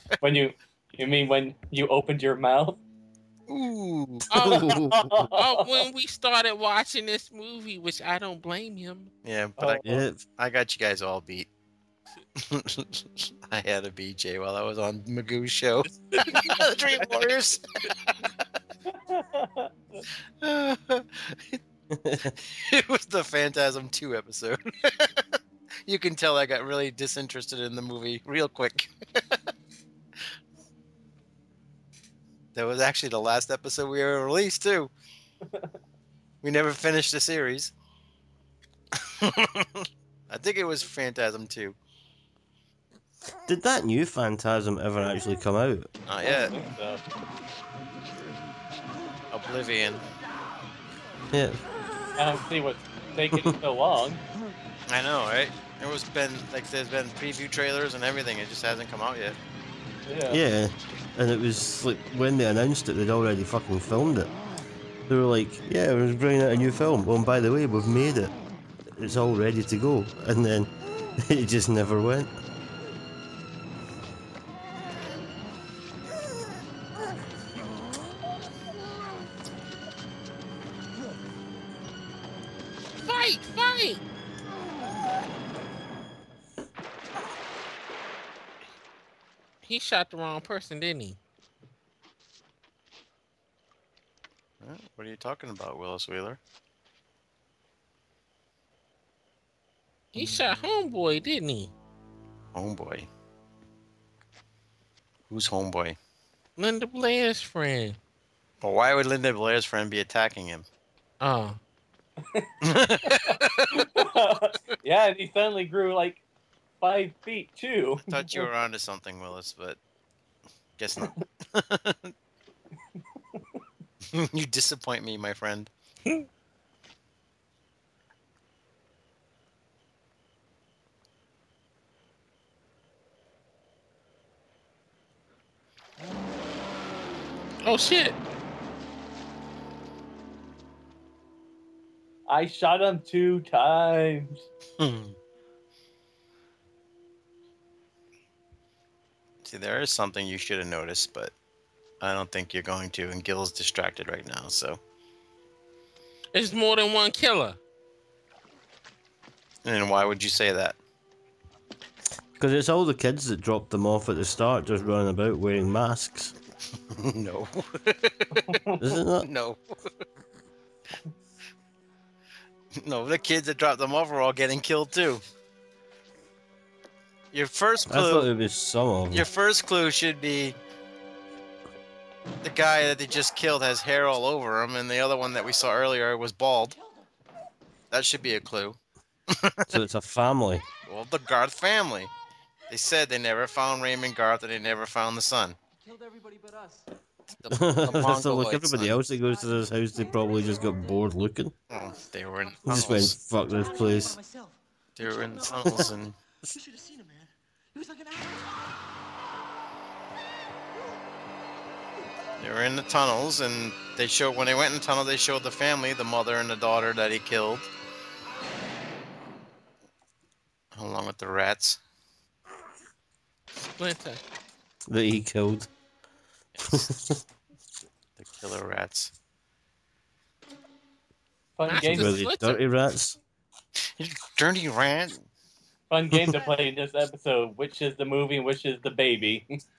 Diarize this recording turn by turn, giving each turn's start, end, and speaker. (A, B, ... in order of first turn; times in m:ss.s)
0:00.2-0:02.8 A
0:03.5-0:04.3 B
0:04.3-0:09.1 C
0:04.3-0:05.2 D
0:05.1-0:05.8 A
0:09.2-0:11.5 B
0:09.6-0:10.0 A
0:09.8-0:10.2 D
0:12.4-0:17.9 B
0:16.3-0:16.7 C
0:18.9-0:20.0 A
0:20.4-0:21.6 B
0:21.9-0:22.4 D
0:22.3-0:25.2 B
0:25.9-0:29.4 B
0:32.6-0:34.9 B
0:36.4-0:37.7 B
0:39.0-0:41.8 B
0:43.4-0:45.9 D
0:46.1-0:46.6 B
0:46.2-0:47.0 A
0:49.3-0:50.0 B
0:51.3-0:51.6 D
0:52.2-0:54.2 A
0:54.9-0:59.4 B
1:00.1-1:00.4 A
1:00.3-1:04.3 D
1:05.1-1:08.4 D
1:08.9-1:12.3 D
1:23.0-1:24.0 C
1:29.6-1:31.2 C
1:34.6-1:36.4 B
1:40.1-1:41.7 C
1:42.6-1:43.1 B
1:45.3-1:46.0 B
1:46.6-1:48.0 C
1:48.6-1:50.7 B
1:51.2-1:51.6 C
1:52.6-1:53.8 B
1:53.1-1:56.2 A
1:56.8-1:58.5 A
1:58.1-1:59.8 B
2:00.8-2:02.1 B
2:04.1-2:05.7 B
2:17.6-2:18.2 C
2:22.3-2:24.5 A
2:24.8-2:25.2 B
2:29.4-2:31.3 B
2:32.0-2:34.8 B
2:36.3-2:37.6 C
2:39.6-2:40.8 B
2:42.4-2:46.4 D
2:46.9-2:48.6 B
2:48.4-2:48.8 A
2:48.8-2:49.3 D
2:49.2-2:50.0 B
2:52.8-2:55.2 B
2:57.3-2:58.3 B
2:57.9-2:59.3 D
2:59.1-3:00.6 B
3:02.4-3:06.8 B
3:07.9-3:08.8 B
3:09.3-3:09.8 B
3:09.7-3:10.7 D
3:10.9-3:12.1 B
3:12.7-3:15.6 B
3:15.8-3:16.8 E
3:17.3-3:19.0 B
3:17.5-3:21.5 D
3:19.2-3:19.7 E
3:21.7-3:23.2 B
3:22.7-3:24.2 D
3:22.7-3:25.9 E
3:25.0-3:26.2 B
3:26.5-3:28.7 E
3:32.4-3:37.7 B
3:40.7-3:41.8 B
3:43.6-3:44.2 C
3:44.9-3:45.7 D
3:46.6-3:46.9 B
3:46.6-3:47.2 D
3:48.2-3:49.1 B
3:51.6-3:52.2 A
3:51.7-3:52.6 C
3:51.7-3:53.2 D
3:53.8-3:55.3 B
3:55.9-3:59.6 A